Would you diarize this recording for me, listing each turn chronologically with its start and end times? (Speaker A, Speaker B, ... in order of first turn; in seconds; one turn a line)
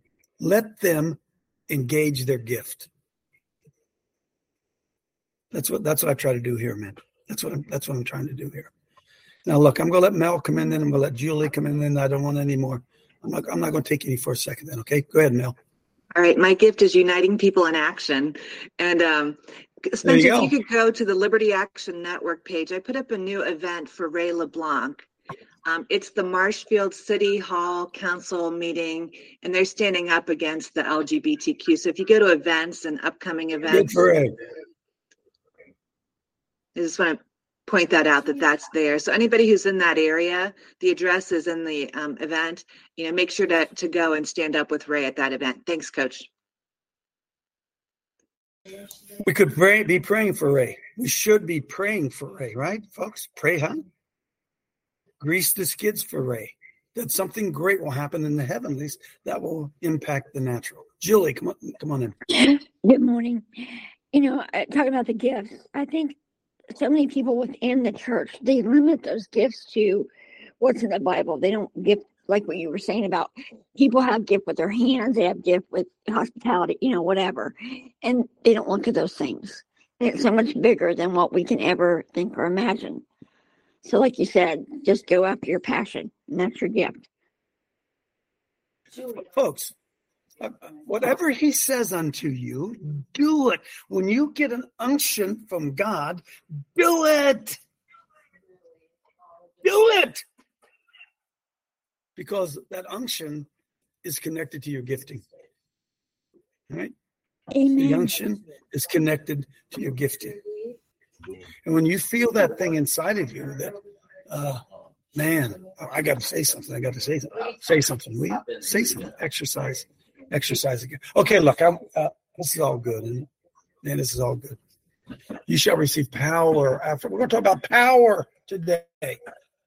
Speaker A: 0.4-2.9
Speaker A: 5.5-8.7
Speaker A: 9.4-15.6
Speaker B: 16.1-25.0
Speaker A: 20.0-20.5
Speaker B: 25.6-34.0
Speaker A: 33.6-34.3
Speaker B: 36.8-46.3
Speaker A: 49.2-53.9
Speaker A: 55.2-62.2
Speaker C: 62.3-66.2
Speaker C: 66.7-70.1
Speaker C: 70.6-83.0
Speaker C: 83.8-87.0
Speaker A: 89.0-89.7
Speaker A: 90.4-96.2
Speaker A: 96.7-97.6
Speaker A: 99.6-100.2
Speaker A: 102.2-103.5
Speaker A: 104.0-105.2
Speaker C: 107.5-108.2
Speaker A: 107.7-110.4
Speaker A: 111.6-123.3
Speaker A: 123.8-124.6
Speaker A: 125.5-129.2